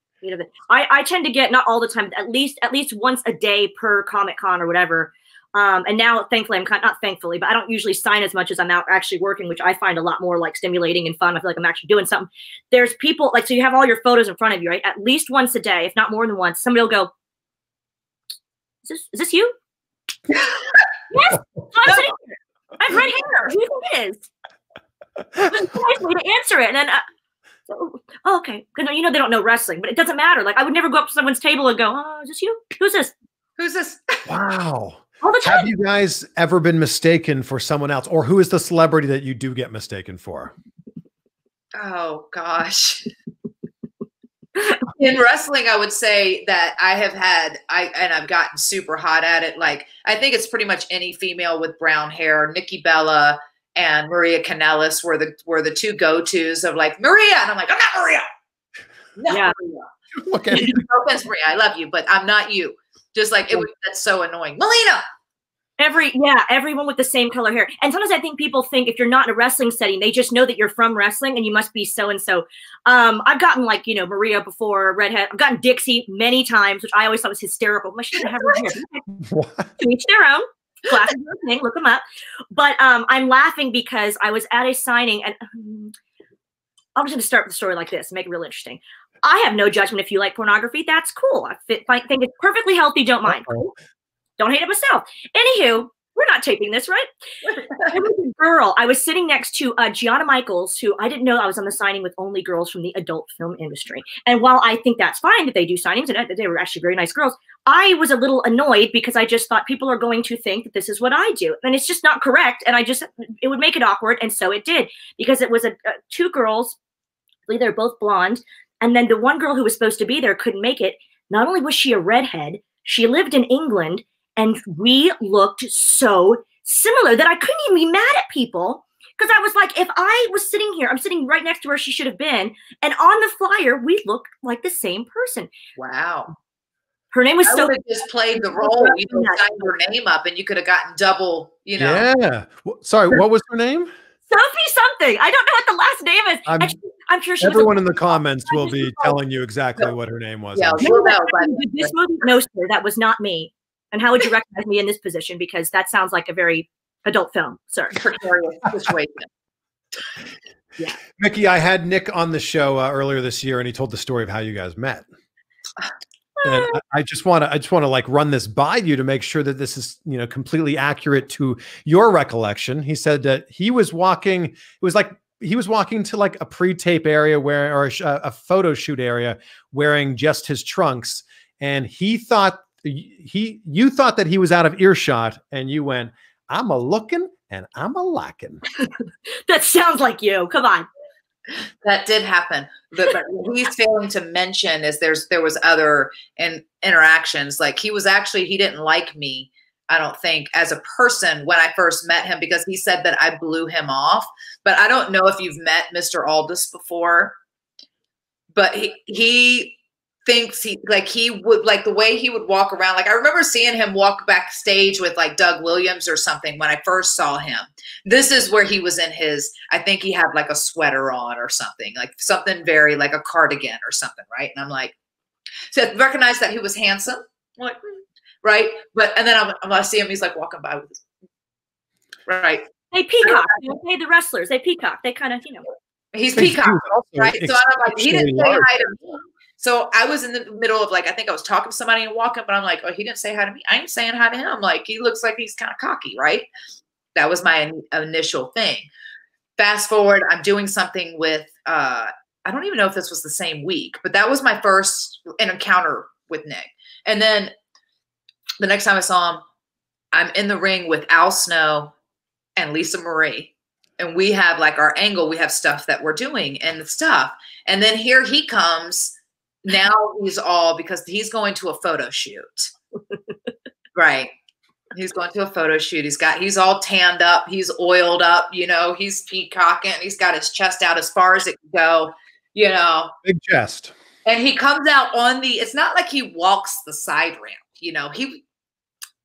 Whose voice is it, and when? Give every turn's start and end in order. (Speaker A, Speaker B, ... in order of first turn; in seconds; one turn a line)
Speaker A: 0.2-17.1
Speaker A: 18.8-19.5
Speaker B: 20.4-20.8
Speaker A: 21.1-24.3
Speaker A: 25.4-27.0
Speaker A: 27.7-33.1
Speaker B: 33.6-34.3
Speaker C: 34.2-40.5
Speaker A: 35.2-35.7
Speaker B: 41.7-43.1
Speaker B: 44.6-58.3
Speaker B: 59.1-59.9
Speaker A: 59.3-59.5
Speaker C: 60.1-60.9
Speaker B: 60.5-65.0
Speaker A: 65.8-79.1
Speaker C: 79.1-79.7
Speaker A: 79.8-85.9
Speaker A: 87.0-93.7
Speaker C: 93.2-93.7
Speaker A: 94.4-97.1
Speaker B: 97.5-97.9
Speaker A: 97.8-116.8
Speaker A: 117.5-135.5
Speaker B: 135.8-136.3
Speaker A: 137.1-137.7
Speaker B: 137.4-142.1
Speaker A: 138.5-139.4
Speaker C: 141.8-143.9
Speaker A: 144.3-149.2
Speaker C: 146.5-146.8
Speaker C: 147.4-150.9
Speaker B: 150.5-151.9
Speaker A: 150.8-157.9
Speaker B: 157.9-159.3
Speaker C: 161.2-165.1
Speaker A: 166.4-166.8
Speaker C: 166.4-188.6
Speaker A: 189.5-190.9
Speaker B: 191.8-207.3
Speaker B: 208.5-224.9
Speaker B: 225.7-231.0
Speaker B: 232.2-232.7
Speaker A: 232.9-235.7
Speaker B: 233.2-233.7
Speaker B: 236.1-246.5
Speaker C: 236.3-238.7
Speaker B: 247.1-248.9
Speaker B: 249.6-257.5
Speaker B: 258.6-259.4
Speaker B: 260.1-261.9
Speaker B: 262.6-272.7
Speaker B: 273.9-274.3
Speaker B: 274.9-283.1
Speaker C: 283.2-283.9
Speaker B: 284.2-288.4